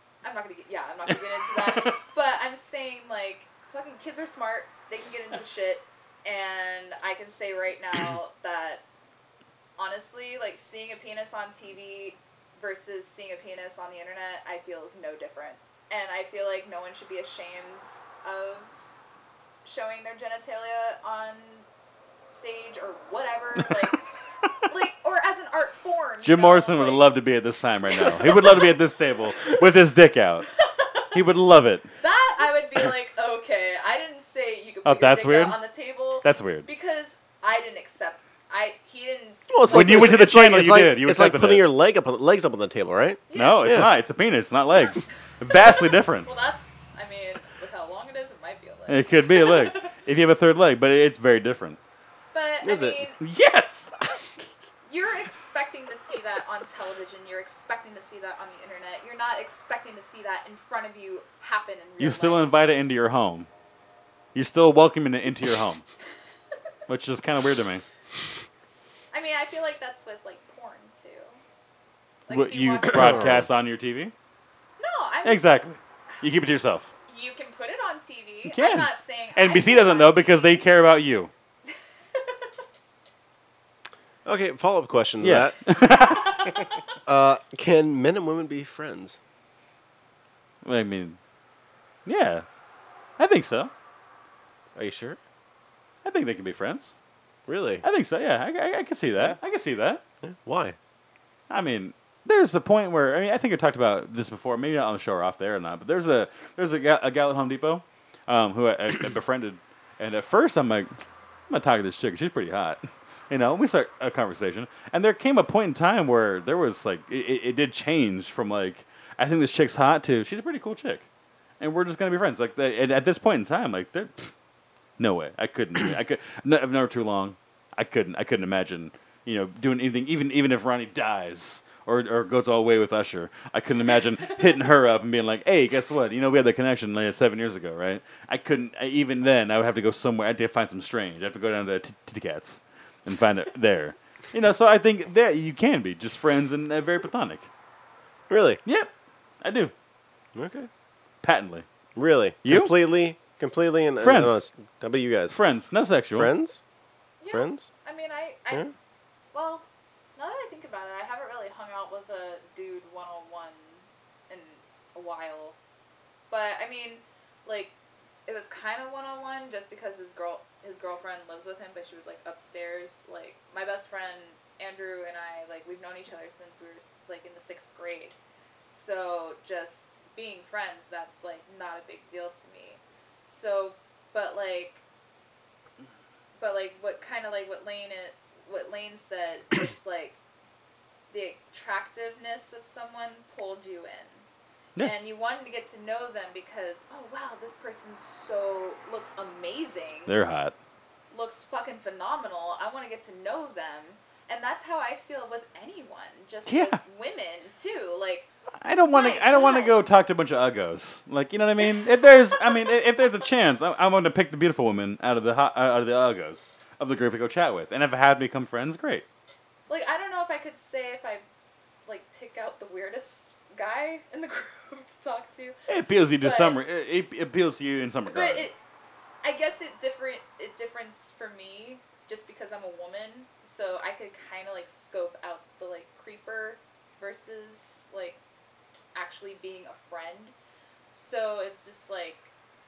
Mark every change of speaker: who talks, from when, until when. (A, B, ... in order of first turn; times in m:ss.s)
0:00.2-0:08.8 A
0:01.1-0:02.0 B
0:09.8-0:18.7 A
0:19.6-0:21.7 A
0:22.3-0:24.1 A
0:24.6-0:27.2 A
0:26.2-0:30.5 B
0:27.9-0:28.6 A
0:30.6-0:31.1 A
0:31.1-0:31.9 B
0:32.0-0:40.1 A
0:34.8-0:35.6 B
0:36.2-0:36.7 B
0:39.5-0:43.9 C
0:39.7-0:41.7 B
0:43.3-0:43.7 A
0:43.4-0:46.3 B
0:46.2-0:49.9 A
0:48.9-0:51.8 B
0:52.3-0:53.2 A
0:52.6-0:53.0 C
0:53.2-0:53.9 B
0:54.9-1:02.5 A
1:02.0-1:03.5 B
1:04.3-1:05.8 B
1:06.9-1:07.8 B
1:09.1-1:11.4 A
1:12.3-1:13.4 A
1:12.3-1:14.1 B
1:12.9-1:13.5 C
1:14.8-1:15.5 A
1:15.2-1:16.9 B
1:17.1-1:20.6 A
1:18.4-1:21.3 B
1:24.2-1:25.6 C
1:25.2-1:26.6 B
1:27.1-1:29.2 C
1:30.6-1:31.2 B
1:32.1-1:32.4 B
1:33.2-1:33.7 B
1:34.8-1:35.2 C
1:36.0-1:36.9 B
1:37.5-1:37.8 C
1:37.8-1:40.0 B
1:40.2-1:40.8 C
1:41.5-2:01.1 B
2:01.6-2:04.3 B
2:05.0-2:27.5 B
2:28.3-2:28.6 C
2:29.4-2:29.7 B
2:30.4-2:30.7 C
2:31.2-2:31.6 B
2:32.0-2:35.4 C
2:32.4-2:32.7 B
2:34.0-2:34.4 B
2:35.3-2:36.3 B
2:36.1-2:36.6 C
2:37.2-2:38.7 A
2:37.3-2:37.7 C
2:39.3-2:45.6 A
2:46.3-2:47.7 A
2:48.2-2:58.2 A
2:58.7-3:04.8 A
3:06.4-3:10.2 A
3:11.1-3:14.2 A
3:14.8-3:20.2 A
3:20.1-3:20.6 B
3:21.1-3:28.3 A
3:26.5-3:26.8 B
3:28.6-3:39.1 B
3:28.9-3:29.8 A
3:39.7-3:41.2 A
3:41.9-3:45.6 A
3:45.7-3:48.5 B
3:46.2-3:46.6 A
3:48.1-3:48.6 A
3:49.2-3:58.2 A
3:58.9-4:00.4 A
4:00.9-4:02.3 A